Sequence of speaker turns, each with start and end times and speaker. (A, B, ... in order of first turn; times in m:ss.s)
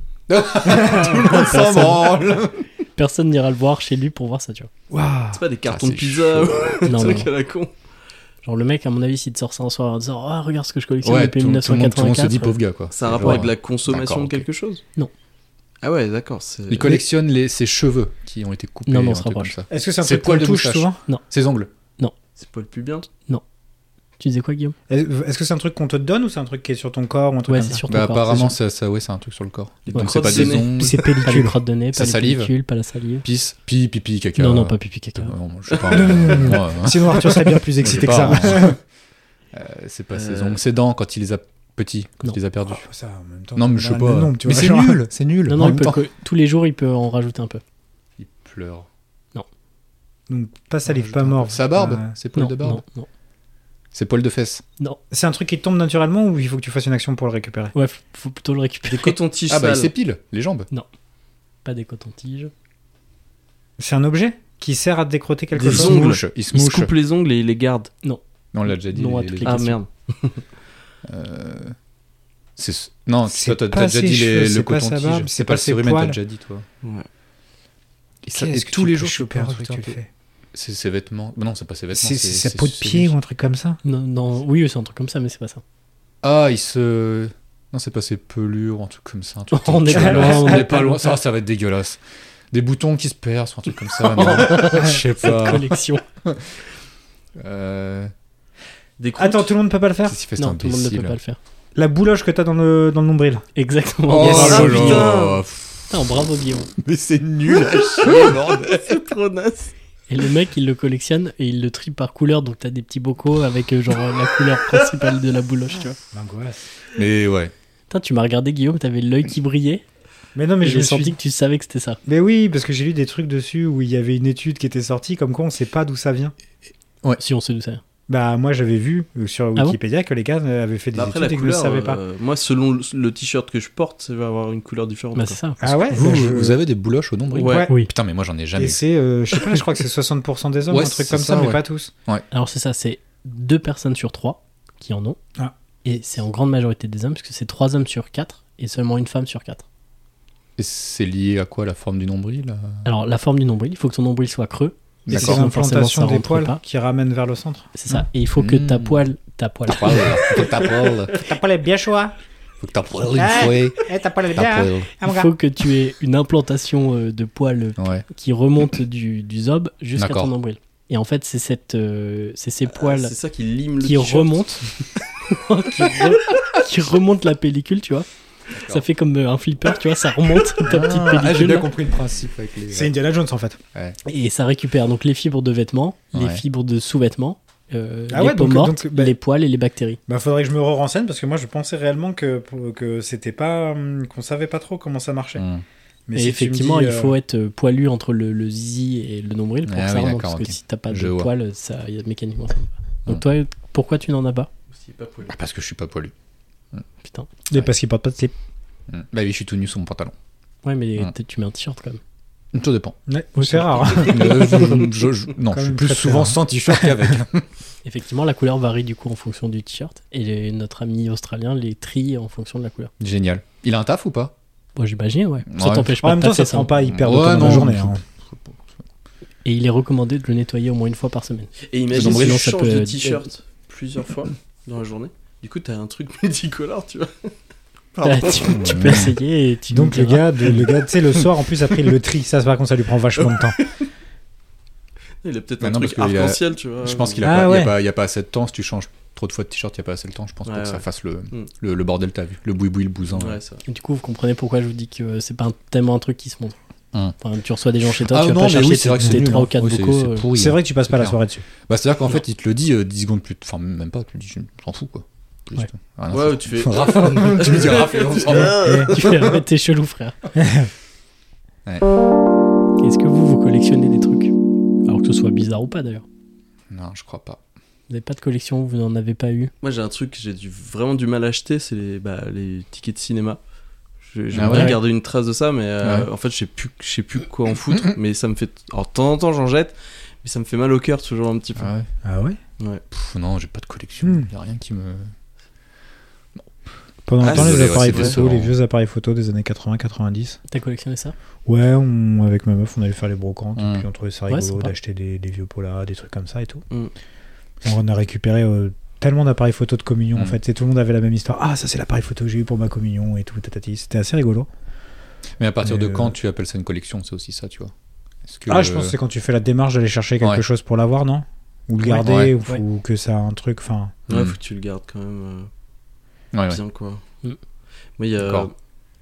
0:00.3-0:02.6 A
0:00.6-0:01.2 B
0:00.7-0:02.3 C
0:03.0-0:04.7 C
0:04.9-0:05.4 B
0:05.3-0:07.7 D
0:05.7-0:06.8 A
0:06.8-0:07.3 C
0:08.4-0:12.6 C
0:11.0-0:14.4 A
0:12.9-0:14.8 D
0:15.8-0:17.0 D
0:16.7-0:21.7 A
0:18.9-0:19.5 C
0:19.7-0:21.0 B
0:22.4-0:23.1 D
0:24.2-0:24.8 C
0:24.9-0:27.8 B
0:27.5-0:28.5 C
0:27.9-0:31.0 A
0:29.9-0:31.1 D
0:29.9-0:33.2 C
0:30.7-0:31.6 B
0:31.9-0:32.5 A
0:33.2-0:38.8 A
0:34.4-0:35.3 C
0:35.9-0:38.8 B
0:39.5-0:42.8 A
0:40.1-0:40.6 D
0:42.6-0:45.1 B
0:43.5-0:46.0 A
0:45.4-0:47.6 C
0:48.2-0:48.9 A
0:50.3-0:52.1 B
0:50.9-0:52.8 A
0:52.3-0:53.1 C
0:53.9-0:54.6 A
0:55.1-0:57.7 B
0:57.7-0:59.1 C
0:58.9-0:59.9 D
0:59.5-1:00.7 A
1:01.6-1:02.5 C
1:03.8-1:06.2 B
1:05.5-1:07.9 D
1:05.6-1:06.9 A
1:08.0-1:09.8 C
1:08.5-1:09.6 A
1:09.4-1:10.4 D
1:11.0-1:11.8 A
1:12.6-1:16.6 A
1:13.3-1:16.2 B
1:16.8-1:17.1 D
1:18.2-1:20.0 A
1:18.3-1:20.1 B
1:20.5-1:23.1 A
1:21.9-1:23.8 B
1:23.8-1:25.6 C
1:26.2-1:32.0 A
1:29.5-1:30.9 C
1:29.9-1:30.9 B
1:32.5-1:36.4 A
1:34.1-1:36.0 C
1:37.4-1:38.1 A
1:39.0-1:39.5 D
1:39.2-1:40.2 B
1:40.1-1:41.2 A
1:40.4-1:41.4 C
1:41.7-1:43.4 B
1:43.6-1:45.1 C
1:44.1-1:46.1 A
1:44.2-1:45.4 D
1:44.3-1:44.7 B
1:45.9-1:46.7 C
1:46.8-1:49.0 A
1:47.5-1:49.7 D
1:50.1-1:56.0 C
1:56.1-1:56.6 B
1:57.0-1:57.5 A
1:57.9-1:59.8 C
2:00.3-2:01.2 B
2:00.6-2:02.0 C
2:02.0-2:06.3 B
2:07.2-2:07.8 C
2:08.1-2:12.0 B
2:10.9-2:15.4 D
2:15.2-2:15.6 C
2:15.6-2:16.6 B
2:15.9-2:18.8 A
2:17.3-2:17.7 D
2:17.4-2:17.8 B
2:18.5-2:21.9 B
2:20.7-2:22.2 A
2:22.3-2:25.2 C
2:25.8-2:29.6 C
2:30.6-2:32.8 A
2:32.8-2:36.6 C
2:35.0-2:35.4 A
2:35.1-2:37.7 B
2:37.7-2:40.7 C
2:38.4-2:39.0 A
2:39.7-2:41.1 A
2:41.2-2:42.2 B
2:42.6-2:44.9 A
2:43.1-2:45.3 B
2:45.0-2:53.1 C
2:47.8-2:48.0 A
2:50.0-2:50.3 A
2:52.7-2:54.3 D
2:53.8-2:54.7 C
2:55.2-2:58.1 C
2:58.5-2:58.8 A
2:58.6-3:01.7 C
3:00.6-3:02.9 A
3:02.7-3:03.6 B
3:04.0-3:10.0 C
3:06.1-3:06.4 A
3:08.1-3:09.1 B
3:10.1-3:15.4 B
3:15.4-3:15.6 A
3:16.1-3:17.2 B
3:16.2-3:24.5 C
3:19.6-3:21.3 A
3:24.7-3:25.4 D
3:25.3-3:26.1 A
3:27.5-3:28.3 B
3:28.9-3:30.1 A
3:30.6-3:32.0 C
3:32.5-3:33.0 A
3:33.1-3:34.9 B
3:33.5-3:37.4 A
3:33.8-3:34.9 C
3:35.4-3:37.2 B
3:37.8-3:42.9 C
3:43.0-3:44.3 A
3:44.8-3:47.6 C
3:45.5-3:45.9 A
3:46.0-3:48.0 B
3:46.9-3:48.6 A
3:49.4-3:53.2 C
3:51.6-3:57.3 D
3:51.9-3:52.4 A
3:57.9-3:58.9 D
3:58.0-4:00.6 C
3:58.5-3:59.1 A
3:59.7-4:03.6 B
4:03.3-4:03.9 D
4:05.2-4:07.5 D
4:05.6-4:13.4 A
4:07.2-4:07.7 B
4:10.4-4:11.5 D
4:13.1-4:13.6 D
4:13.6-4:16.6 C
4:17.2-4:20.3 C
4:18.0-4:29.4 A
4:19.0-4:19.4 B
4:20.3-4:21.4 B
4:26.1-4:29.2 D
4:28.3-4:28.9 B
4:28.9-4:30.2 C
4:30.4-4:30.7 B
4:32.8-4:34.3 C
4:34.8-4:36.0 C
4:36.7-4:37.4 A
4:37.9-4:39.5 C
4:39.6-4:43.4 D
4:44.0-4:51.7 D
4:44.3-4:44.8 A
4:44.5-4:44.8 C
4:45.8-4:46.1 A
4:51.6-4:51.9 A
4:52.0-4:52.4 B
4:52.9-4:55.1 A
4:54.0-4:54.3 B
4:57.0-5:00.4 B
4:57.2-4:58.2 D
4:57.2-4:58.6 A
5:00.5-5:01.1 C
5:01.4-5:06.6 B
5:03.6-5:03.8 A
5:04.3-5:04.7 C
5:07.6-5:14.5 B
5:15.4-5:17.7 A
5:15.6-5:16.2 B
5:18.2-5:18.9 A
5:18.5-5:24.0 B
5:22.0-5:22.3 A
5:24.1-5:24.4 A
5:24.1-5:25.5 D
5:26.3-5:26.6 A
5:26.5-5:27.0 D
5:28.0-5:28.5 D
5:28.2-5:28.5 A